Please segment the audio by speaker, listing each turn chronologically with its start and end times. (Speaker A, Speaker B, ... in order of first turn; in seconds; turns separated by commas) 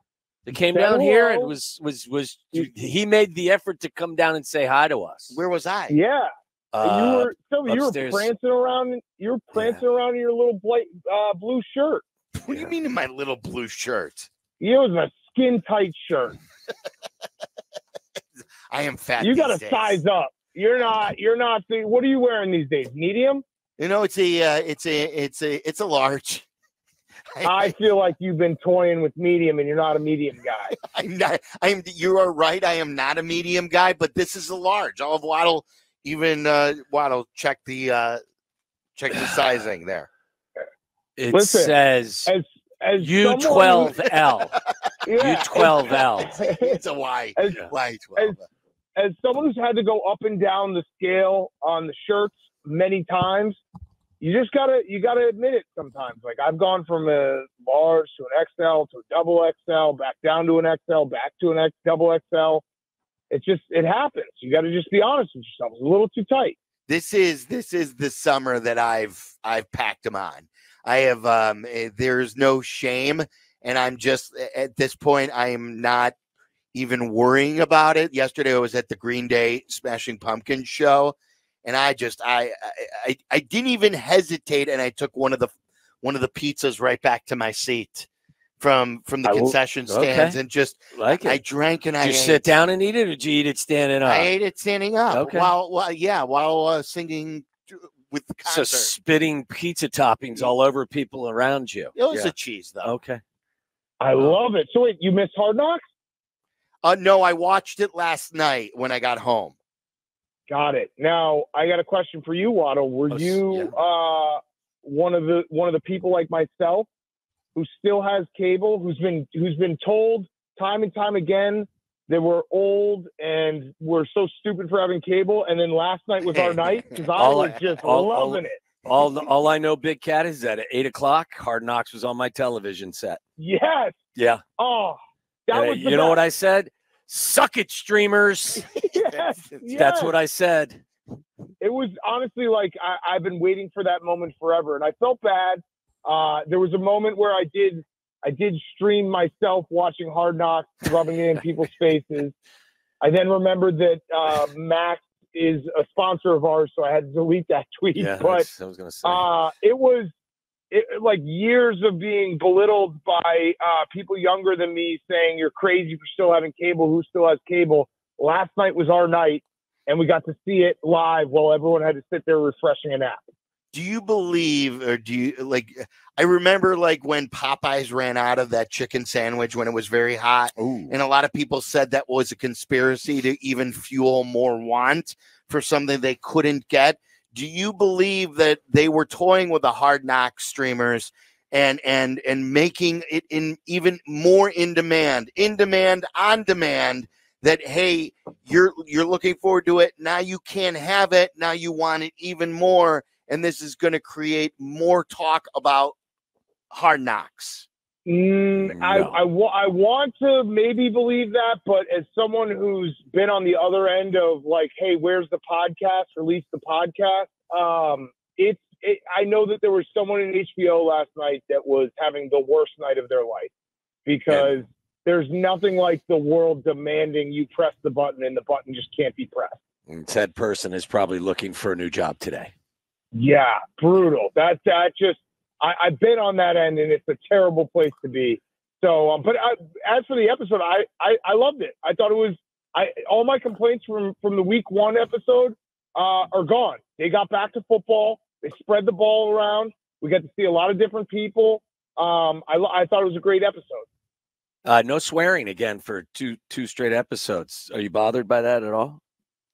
Speaker A: 0.5-5.4, Speaker B: 0.7-1.5, Speaker C: 5.3-5.9, Speaker B: 5.9-6.3, Speaker A: 6.7-8.3, Speaker B: 6.8-12.0, Speaker A: 9.5-9.8, Speaker C: 12.3-14.3, Speaker A: 12.5-12.7, Speaker B: 14.6-16.4, Speaker C: 18.7-20.0, Speaker B: 19.2-23.4, Speaker C: 23.8-26.4, Speaker C: 27.3-27.7, Speaker B: 27.4-30.7, Speaker C: 30.7-38.2, Speaker C: 39.0-40.1, Speaker A: 41.2-42.3, Speaker B: 41.3-41.7, Speaker B: 42.2-44.0, Speaker A: 43.0-44.5, Speaker B: 45.0-46.8, Speaker A: 45.2-46.3, Speaker C: 46.2-48.4, Speaker B: 47.4-47.6, Speaker B: 49.0-53.6, Speaker B: 54.2-62.6, Speaker B: 63.3-66.5, Speaker C: 66.9-76.1, Speaker C: 76.7-88.1, Speaker C: 88.6-92.4, Speaker A: 89.2-90.4, Speaker A: 90.9-91.4, Speaker A: 92.0-94.3, Speaker C: 94.0-98.9, Speaker A: 95.1-95.5, Speaker A: 98.5-102.3, Speaker C: 101.9-102.9, Speaker A: 102.8-103.2, Speaker B: 104.0-105.8, Speaker C: 106.8-109.5, Speaker B: 110.5-116.9, Speaker A: 113.1-113.7, Speaker B: 117.5-128.6, Speaker A: 126.4-133.2, Speaker B: 133.4-134.0, Speaker A: 134.2-134.4, Speaker B: 134.6-136.2, Speaker A: 135.5-138.7, Speaker B: 138.9-140.1, Speaker A: 139.7-140.8, Speaker B: 141.6-152.3, Speaker B: 153.0-158.5, Speaker A: 157.9-159.2, Speaker B: 159.0-160.1, Speaker B: 160.7-173.2, Speaker C: 173.7-205.9, Speaker A: 180.6-180.9, Speaker C: 206.7-207.7, Speaker B: 208.1-223.5, Speaker A: 208.6-209.2, Speaker B: 224.1-229.6, Speaker A: 229.9-232.5, Speaker B: 233.1-253.8, Speaker A: 254.6-259.0